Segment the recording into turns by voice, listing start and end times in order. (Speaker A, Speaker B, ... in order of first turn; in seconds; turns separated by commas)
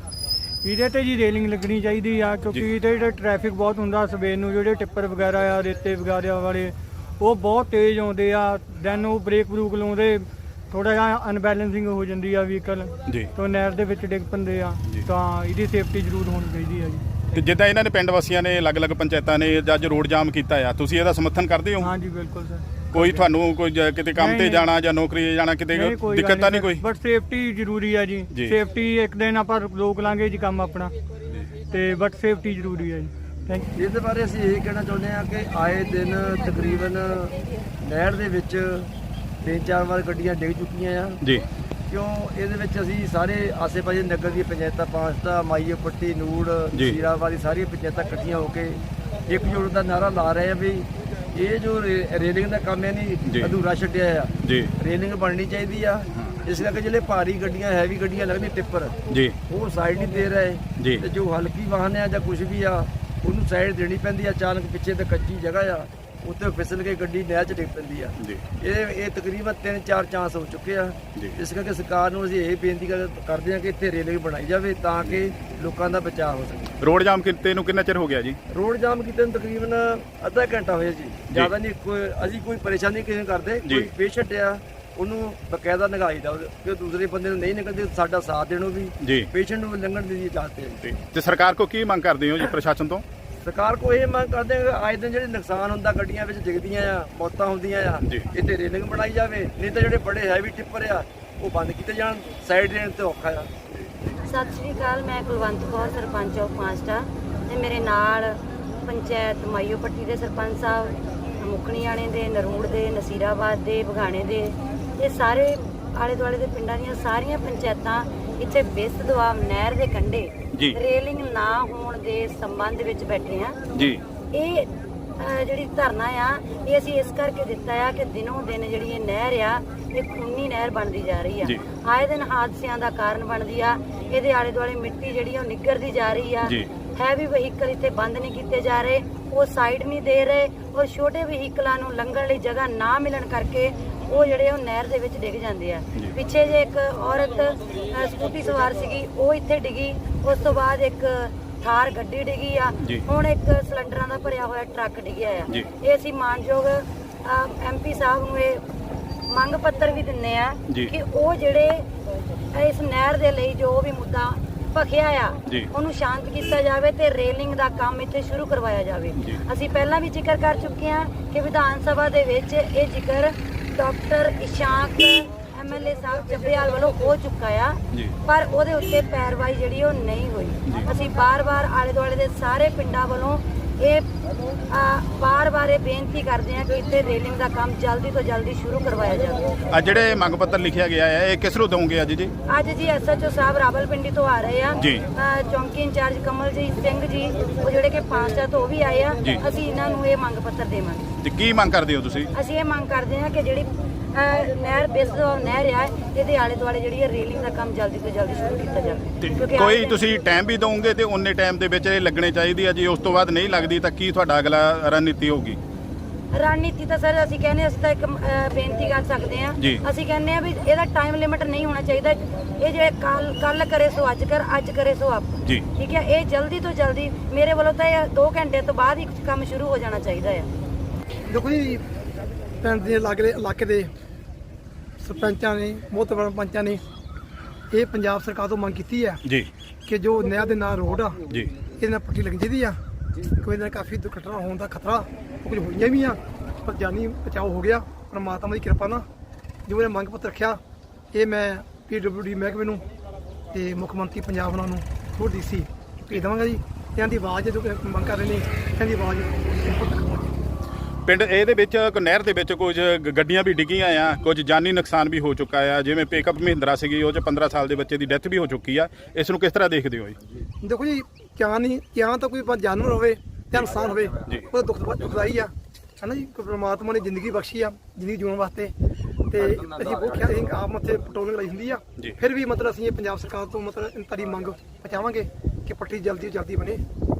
Speaker A: 0.6-17.0, Speaker B: 17.3-21.9, Speaker A: 21.8-23.1, Speaker B: 22.9-26.8, Speaker A: 24.2-24.7, Speaker A: 25.7-30.9, Speaker A: 31.6-33.7, Speaker C: 33.7-38.9, Speaker C: 39.4-41.2, Speaker C: 41.9-76.7, Speaker B: 54.4-54.7, Speaker B: 59.1-59.3, Speaker B: 76.8-78.4, Speaker C: 78.5-90.9, Speaker B: 90.9-93.0, Speaker C: 93.4-103.5, Speaker D: 104.2-123.6, Speaker B: 123.7-124.0, Speaker D: 124.3-158.6, Speaker D: 159.3-161.9, Speaker D: 162.5-184.1, Speaker D: 184.7-189.5, Speaker B: 189.7-192.3, Speaker D: 192.5-201.1, Speaker B: 201.2-202.3, Speaker D: 202.3-210.0, Speaker B: 209.2-215.6, Speaker D: 216.3-230.5, Speaker E: 231.3-231.8, Speaker E: 232.6-233.9, Speaker E: 235.0-236.8, Speaker E: 237.7-239.2, Speaker E: 239.8-249.1, Speaker E: 249.7-250.6, Speaker E: 251.1-252.8, Speaker E: 253.5-260.3, Speaker B: 261.0-270.1, Speaker E: 270.6-278.7, Speaker E: 279.3-286.8